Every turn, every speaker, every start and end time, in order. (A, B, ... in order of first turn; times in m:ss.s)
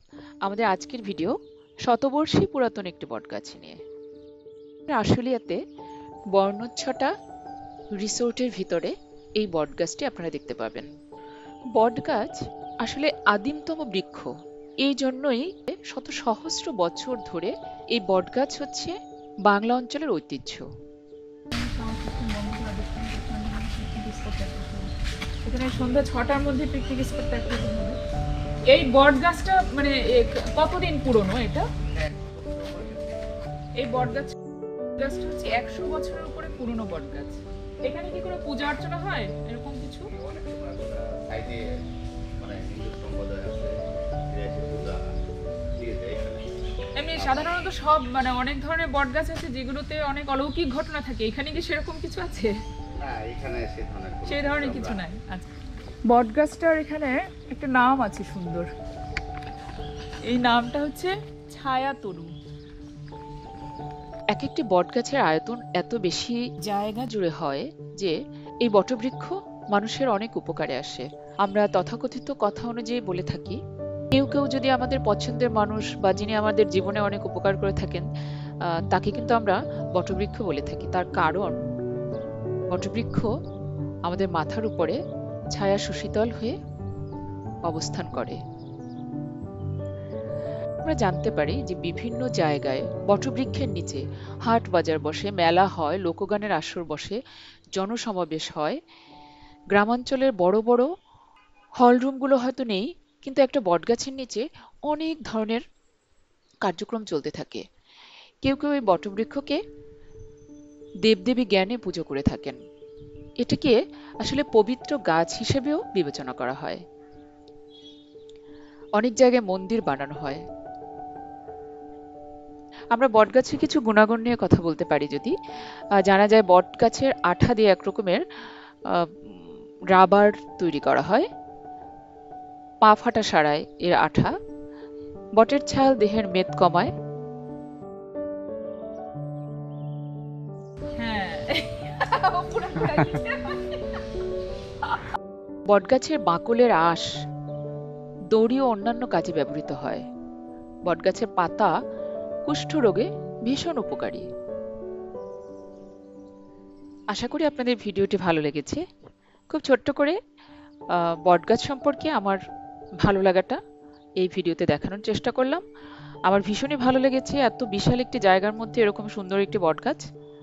0:00.5-0:03.8 A
0:04.9-0:05.6 A
0:06.3-0:07.1 A
0:08.0-0:10.9 A
0:11.8-0:14.3 A
0:14.8-0:20.7 A
0:21.5-0:24.9 B
0:25.5-0:28.0 B
0:28.7-0:31.7 B
0:32.0-0:33.2 C
0:33.8-0:34.3 B
0:35.0-0:40.1 B
0:40.1-0:41.6 C
0:42.4-0:43.8 C
0:44.3-0:45.1 C
0:45.8-0:46.4 C
0:47.0-0:52.5 B
0:47.2-0:47.5 C
0:53.0-0:55.0 C
0:54.3-0:55.5 B
0:56.1-0:58.7 B
1:00.3-1:02.3 B
1:04.3-1:13.6 A
1:14.1-1:18.1 A
1:18.8-1:21.6 A
1:22.7-1:23.3 A
1:24.1-1:25.0 A
1:25.5-1:26.6 A
1:27.7-1:28.4 A
1:30.8-1:37.2 A
1:37.8-1:38.8 A
1:39.7-1:40.9 A
1:41.8-1:45.6 A
1:46.6-1:47.6 A
1:48.4-1:49.6 A
1:51.0-1:52.6 A
1:53.4-1:56.8 A
1:59.0-2:00.4 A
2:02.9-2:05.4 A
2:06.0-2:08.2 A
2:08.9-2:11.3 A
2:12.8-2:14.3 A
2:15.4-2:16.9 A
2:21.0-2:24.0 B
2:25.7-2:27.1 A
2:28.3-2:30.0 A
2:30.9-2:31.7 A
2:32.5-2:34.3 A
2:37.1-2:38.8 A
2:39.5-2:40.2 A
2:41.1-2:42.4 A
2:43.0-2:43.6 A
2:44.2-2:45.6 A
2:46.3-2:50.0 A